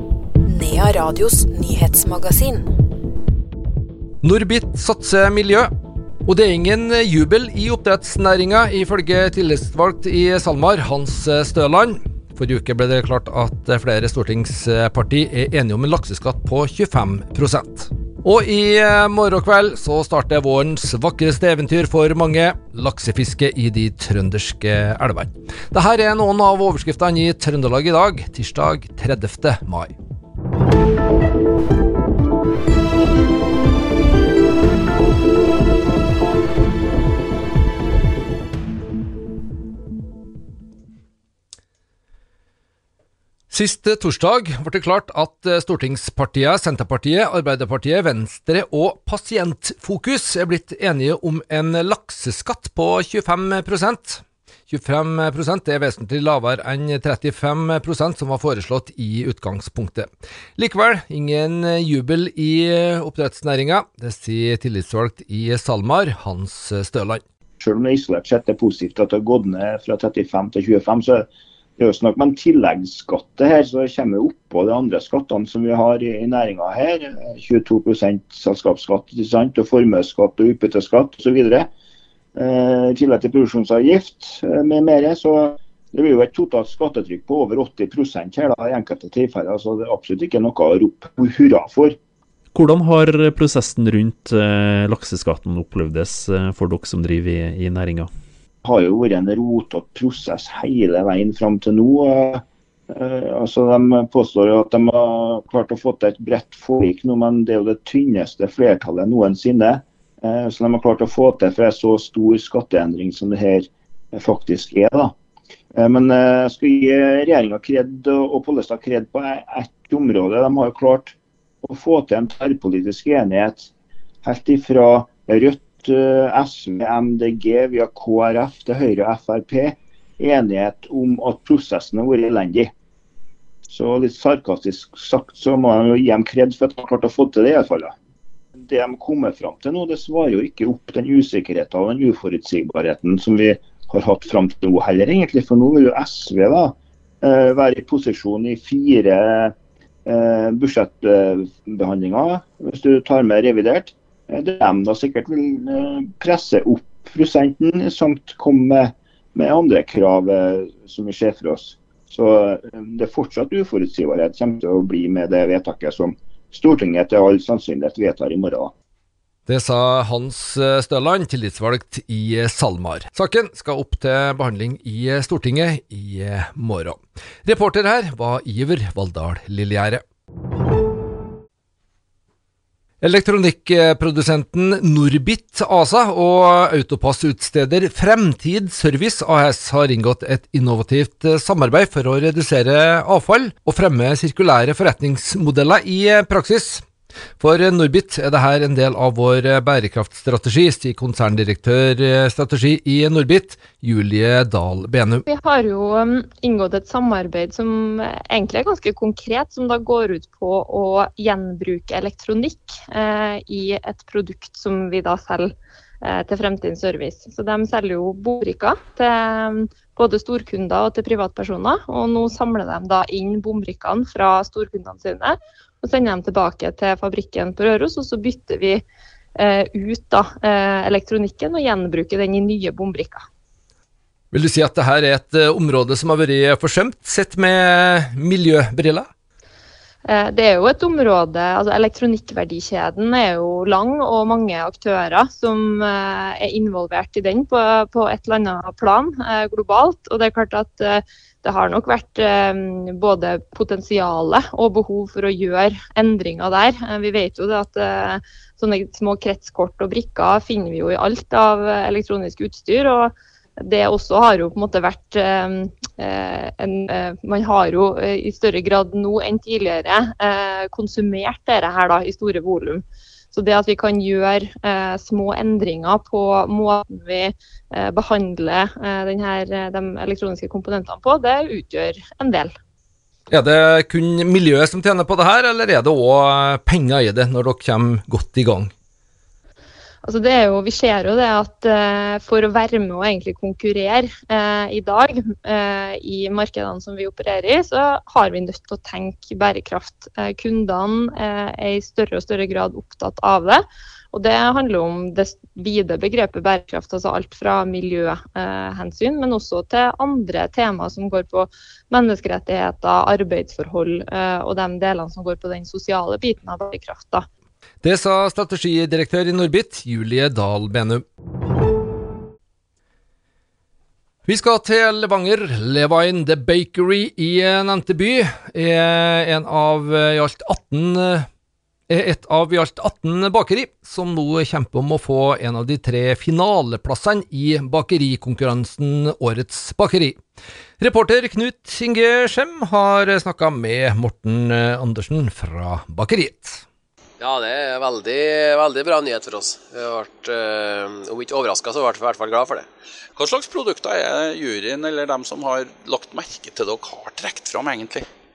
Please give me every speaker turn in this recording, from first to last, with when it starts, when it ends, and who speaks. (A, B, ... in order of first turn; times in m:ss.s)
0:00.5-0:02.7 A
0:04.2-0:05.7 B
0:06.3-0:29.9 B
0:43.5-1:07.2 B
1:07.6-1:11.3 C
1:11.8-1:21.7 C
1:22.4-1:32.0 C
1:32.5-1:38.1 D
1:38.6-1:55.1 C
1:55.7-2:03.7 C
2:04.2-2:12.7 C
2:13.7-2:18.0 C
2:18.6-2:29.6 C
2:30.1-2:48.7 C
2:49.5-3:00.0 B
3:03.0-3:16.8 B
3:17.4-3:25.2 B
3:25.3-3:48.8 E
3:49.4-3:53.2 E
3:54.3-3:59.1 B
4:00.1-4:42.5 E
4:43.3-4:48.7 B
4:50.0-5:17.2 E
5:17.8-5:21.0 B
5:24.2-5:31.3 B
5:31.9-5:40.2 B
5:40.8-5:46.6 B
5:47.2-5:52.7 F
5:53.2-5:58.0 G